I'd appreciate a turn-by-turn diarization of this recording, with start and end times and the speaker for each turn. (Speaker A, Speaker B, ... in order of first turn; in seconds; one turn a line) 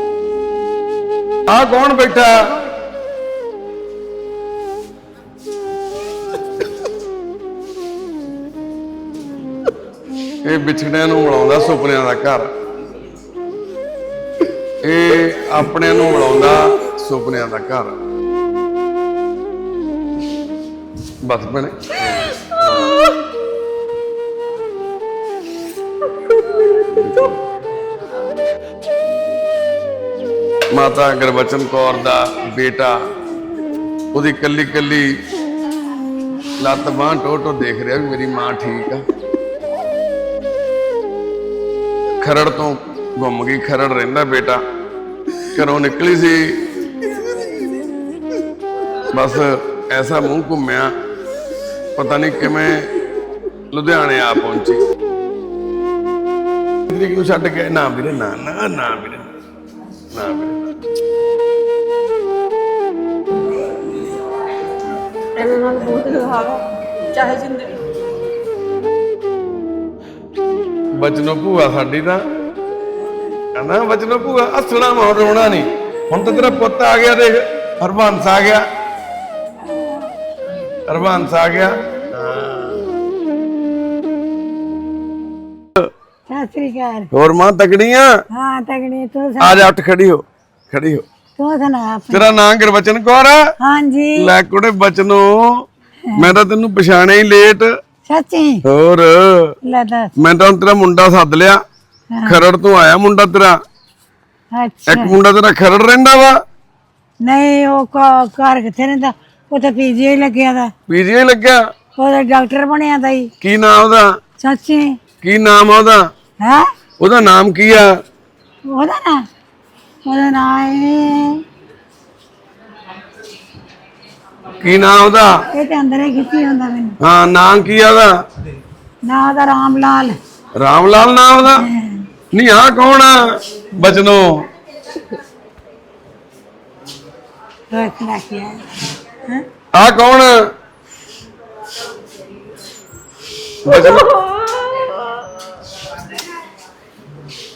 Speaker A: 1.5-2.5
Speaker A: 10.4-12.5
Speaker A: 14.8-17.9
Speaker A: 21.2-23.0
Speaker A: 26.9-27.3
Speaker A: 30.7-33.0
Speaker A: 34.1-35.1
Speaker A: 36.6-39.0
Speaker A: 42.2-44.6
Speaker A: 45.5-46.7
Speaker A: 49.1-50.9
Speaker A: 52.0-52.9
Speaker A: 53.7-54.8
Speaker A: 56.9-59.3
Speaker A: 60.1-60.6
Speaker B: 65.3-67.8
Speaker A: 71.0-72.2
Speaker A: 73.5-78.6
Speaker C: 79.6-80.1
Speaker A: 80.9-82.9
Speaker C: 86.3-87.1
Speaker A: 87.1-88.1
Speaker C: 88.3-89.7
Speaker A: 89.4-91.0
Speaker C: 91.4-92.3
Speaker A: 92.1-93.4
Speaker C: 93.6-94.3
Speaker A: 94.2-97.7
Speaker C: 98.1-98.6
Speaker A: 98.6-99.5
Speaker C: 99.6-100.1
Speaker A: 100.2-101.6
Speaker C: 102.1-102.4
Speaker A: 102.2-103.6
Speaker C: 104.5-105.2
Speaker A: 104.9-106.4
Speaker C: 107.2-110.7
Speaker A: 110.9-111.6
Speaker C: 112.0-113.3
Speaker A: 113.4-114.1
Speaker C: 114.4-115.0
Speaker A: 115.2-116.1
Speaker C: 116.4-116.7
Speaker A: 117.0-117.9
Speaker C: 118.7-119.2
Speaker C: 120.0-121.4
Speaker A: 124.6-125.3
Speaker C: 125.5-127.0
Speaker A: 127.0-128.1
Speaker C: 129.1-130.2
Speaker A: 130.6-131.7
Speaker C: 131.6-132.1
Speaker A: 132.3-133.2
Speaker A: 133.7-134.4
Speaker C: 137.7-138.7
Speaker A: 139.7-140.3
Speaker A: 143.6-144.1
Speaker B: 143.7-145.3